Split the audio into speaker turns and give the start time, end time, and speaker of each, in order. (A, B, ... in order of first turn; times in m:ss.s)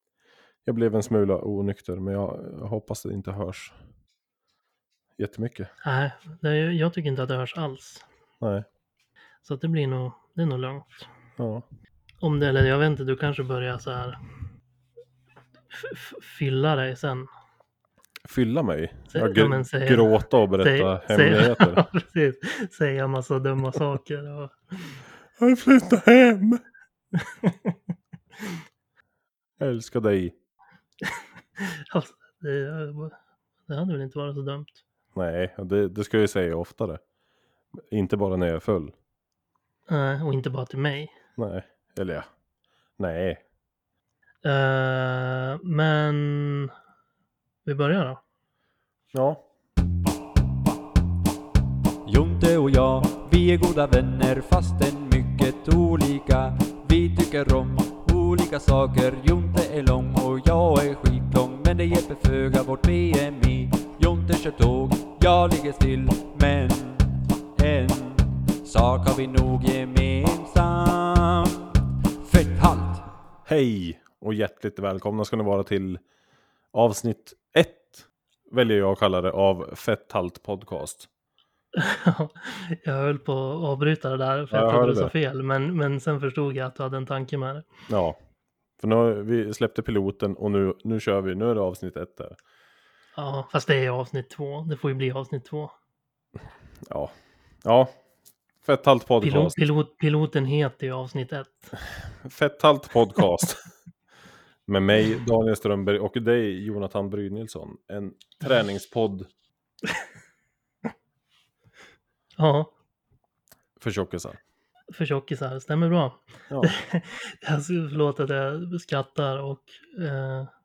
0:00.6-0:03.8 A
0:05.2-0:05.7 A
0:05.8-0:08.0 B
0:08.4-0:08.7 A
0:09.4-0:11.1 B
0:11.4-0:11.6 A
0:12.2-0:14.2 B
0:15.7-0:17.3 B
0:18.3-0:21.8 A
0:19.1-0:25.0 B
0:25.4-0:26.6 A
0:27.1-0:27.8 B
0:29.6-0:30.4 A
0:31.1-0:33.2 B
0:33.7-0:34.8 B
0:35.2-0:37.0 A
0:37.9-0:38.9 A
0:39.9-0:41.2 B
0:41.4-0:42.3 A
0:43.0-0:43.4 A
0:44.4-0:46.7 B
0:47.7-0:48.2 B
0:49.1-0:49.4 A
0:52.0-1:13.1 C
1:13.5-1:16.0 A
1:16.7-1:21.1 A
1:21.7-1:27.7 B
1:24.5-1:25.1 A
1:27.9-1:28.2 A
1:28.8-1:32.4 A
1:33.2-1:35.7 B
1:36.9-1:37.1 A
1:37.6-1:37.9 A
1:38.6-1:39.6 A
1:39.2-1:41.7 B
1:42.2-1:43.6 A
1:44.7-1:49.3 A
1:52.4-1:52.7 B
1:53.8-1:54.4 A
1:54.9-2:00.5 B